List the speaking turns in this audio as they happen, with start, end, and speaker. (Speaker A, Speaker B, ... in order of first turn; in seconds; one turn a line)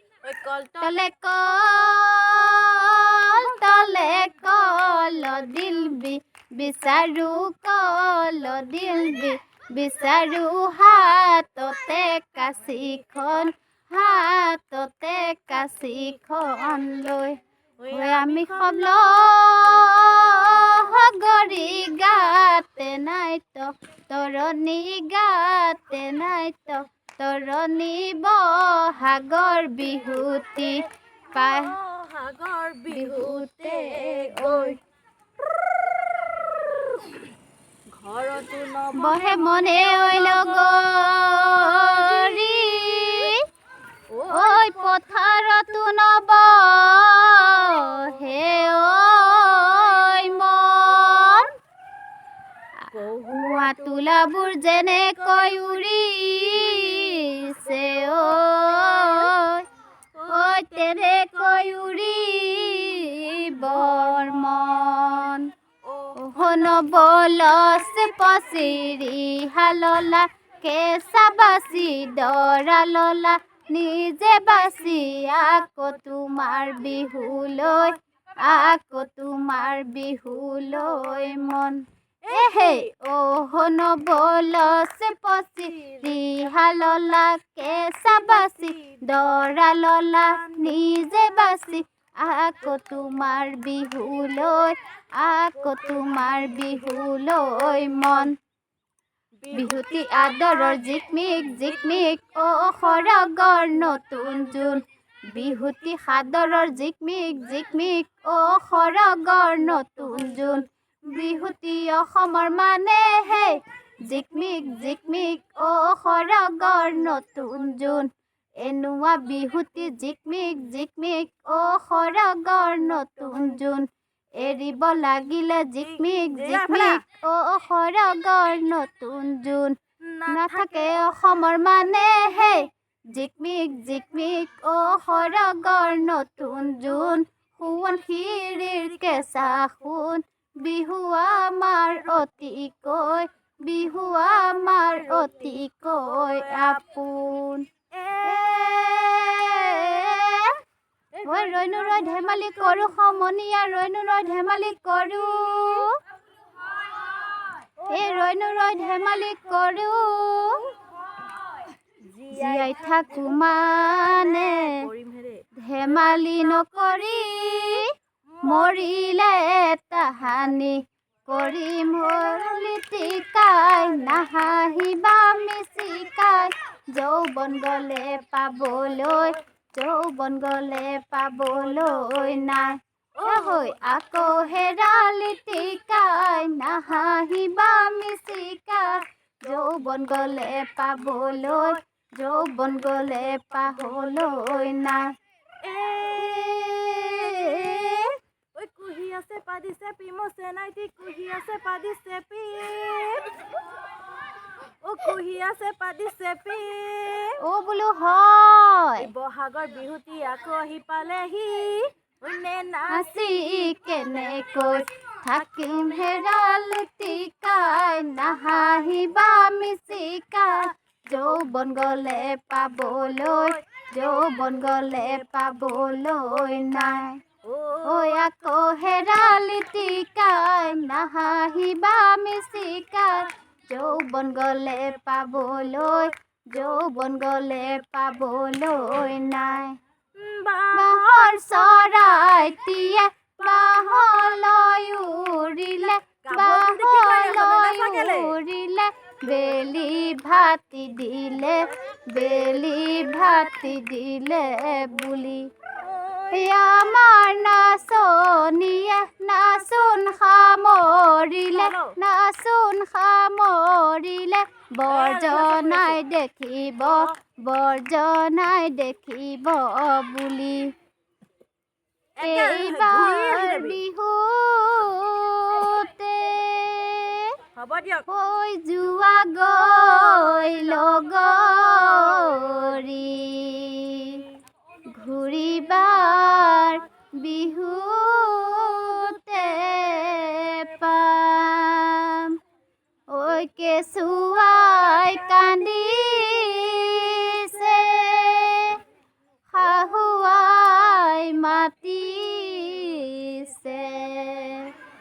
Speaker A: 0.2-0.9
Speaker B: 0.8-31.8
Speaker A: 17.8-18.9
Speaker A: 19.7-20.7
Speaker A: 31.3-34.8
Speaker B: 32.9-34.8
Speaker A: 37.9-40.7
Speaker B: 38.9-43.5
Speaker A: 41.7-43.3
Speaker A: 44.1-45.1
Speaker B: 44.3-51.5
Speaker B: 52.8-59.6
Speaker A: 52.9-54.0
Speaker A: 55.4-55.7
Speaker A: 56.5-59.3
Speaker A: 60.1-61.3
Speaker B: 60.3-65.5
Speaker A: 65.8-66.6
Speaker B: 66.2-98.3
Speaker A: 75.6-76.0
Speaker A: 82.2-82.9
Speaker A: 85.7-86.2
Speaker A: 88.3-89.2
Speaker A: 90.3-90.8
Speaker A: 95.7-96.1
Speaker A: 99.4-100.8
Speaker B: 99.5-123.9
Speaker A: 101.5-101.9
Speaker B: 124.4-129.8
Speaker A: 125.8-127.0
Speaker A: 130.0-131.0
Speaker B: 130.3-147.7
Speaker A: 139.1-139.3
Speaker A: 145.1-146.8
Speaker A: 147.9-150.3
Speaker B: 148.2-150.6
Speaker A: 151.1-152.9
Speaker B: 151.2-156.0
Speaker A: 157.8-158.2
Speaker B: 157.9-160.7
Speaker A: 162.0-165.4
Speaker B: 162.3-164.9
Speaker B: 165.6-195.1
Speaker A: 168.3-168.7
Speaker A: 181.7-182.5
Speaker A: 183.2-183.8
Speaker A: 195.6-203.3
Speaker B: 196.1-198.2
Speaker A: 204.8-207.4
Speaker B: 207.4-209.1
Speaker A: 209.0-213.1
Speaker B: 212.9-227.2
Speaker A: 214.5-214.8
Speaker A: 223.1-223.6
Speaker A: 224.9-225.3
Speaker A: 227.4-228.2
Speaker B: 227.8-239.8
Speaker A: 240.1-241.1
Speaker B: 240.7-255.5
Speaker A: 246.2-248.4
Speaker A: 253.2-253.5
Speaker A: 255.8-256.6
Speaker B: 256.3-270.7
Speaker A: 261.5-261.9
Speaker A: 264.9-266.0
Speaker A: 272.1-273.8
Speaker B: 272.2-277.4
Speaker A: 277.5-278.1
Speaker B: 278.1-284.3
Speaker A: 280.1-280.5
Speaker A: 281.8-282.6
Speaker B: 284.9-292.4
Speaker A: 286.4-286.8
Speaker B: 293.1-298.8
Speaker B: 299.5-304.7